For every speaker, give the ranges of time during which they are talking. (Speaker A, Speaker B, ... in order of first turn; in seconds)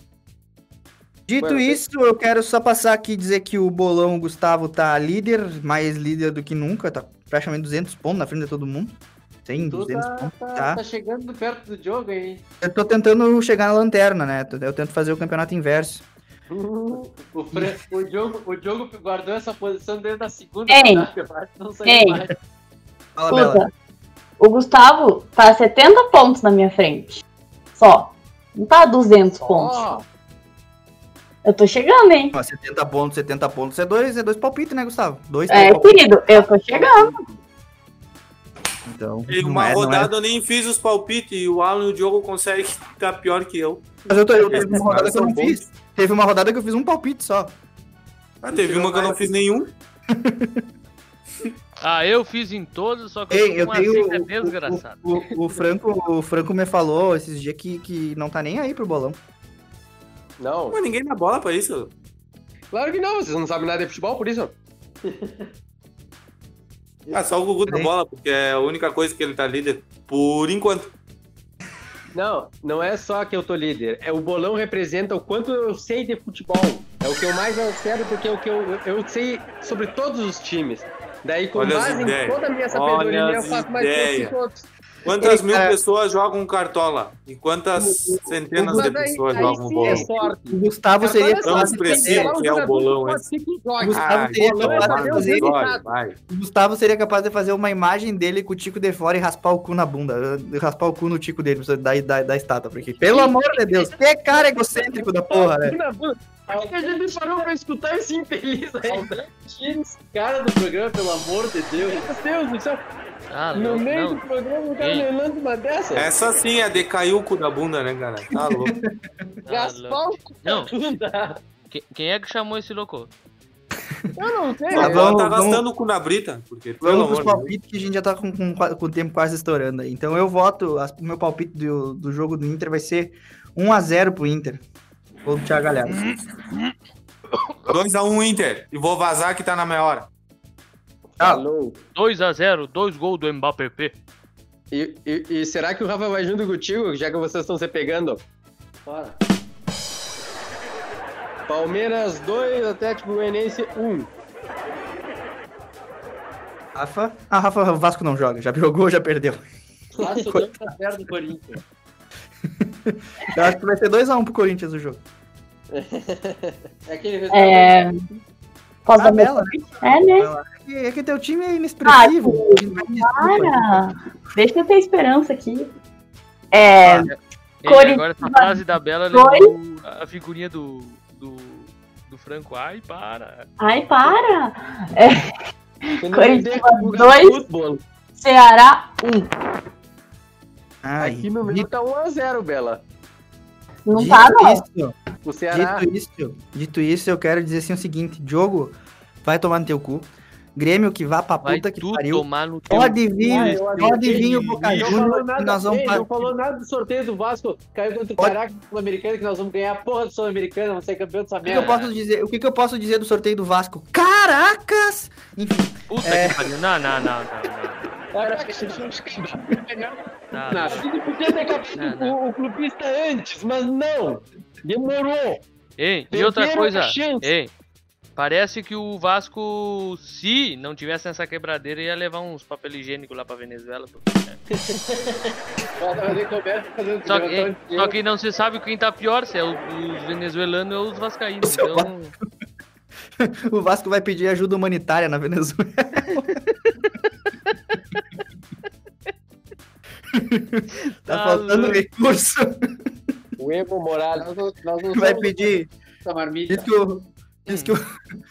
Speaker A: 1.3-10.8, 12.6-16.0, 17.5-17.8, 23.1-23.6, 32.3-36.1, 38.9-40.1, 44.1-47.6, 48.5-49.3, 50.1-50.6, 53.3-59.2, 85.2-85.8, 87.8-92.3, 93.8-95.5, 96.3-105.8, 118.4-119.2, 124.7-125.6, 126.8-134.6, 135.2-136.2, 156.7-159.4, 162.5-165.0, 169.0-173.9, 190.8-191.7, 193.9-194.9, 195.5-206.2, 211.4-216.5, 241.4-241.9, 243.2-246.4, 250.1-252.9, 254.9-255.7, 256.5-257.9
Speaker B: 1.4-1.8, 16.5-17.0, 29.5-29.9, 60.4-60.8, 62.7-64.5, 72.1-84.7, 88.6-95.9, 105.3-109.3, 111.8-112.8, 113.5-116.1, 119.5-121.4, 124.2-125.1, 141.2-141.8, 144.7-148.2, 151.5-154.1, 160.0-160.4, 165.7-166.6, 186.0-187.8, 191.0-192.8, 195.2-195.8, 203.2-206.4, 218.1-220.0, 220.5-225.4, 226.1-227.3, 253.4-254.3
Speaker C: 9.6-12.4, 17.0-22.3, 106.5-106.8, 108.8-112.1, 148.8-149.2, 160.0-161.6, 166.9-167.9, 206.3-211.7, 218.2-218.8, 220.7-221.6, 235.8-237.9, 254.2-256.7
Speaker D: 20.7-21.1, 21.8-22.2, 23.3-23.7, 24.4-27.2, 27.8-29.9, 31.4-32.3, 35.5-37.2, 167.3-168.0, 168.8-170.3, 171.8-175.7, 176.5-177.1, 177.6-179.5, 183.6-185.3, 185.9-187.4, 188.2-189.3, 193.8-194.6
Speaker E: 39.3-43.8, 44.5-45.6, 48.4-49.7, 60.7-61.9, 67.1-70.9, 81.5-84.3, 85.0-90.1, 91.4-93.3, 93.9-96.2, 115.9-118.7, 124.7-127.5, 137.7-140.1
Speaker F: 51.8-55.0, 113.3-114.2, 114.8-115.1, 119.4-120.7, 121.7-123.1, 141.9-143.9, 176.8-183.5, 201.4-205.0, 211.5-211.9, 215.9-217.9, 220.3-220.9, 221.7-222.2, 225.8-227.5, 228.2-234.4, 237.0-242.1, 250.8-251.8, 257.5-257.8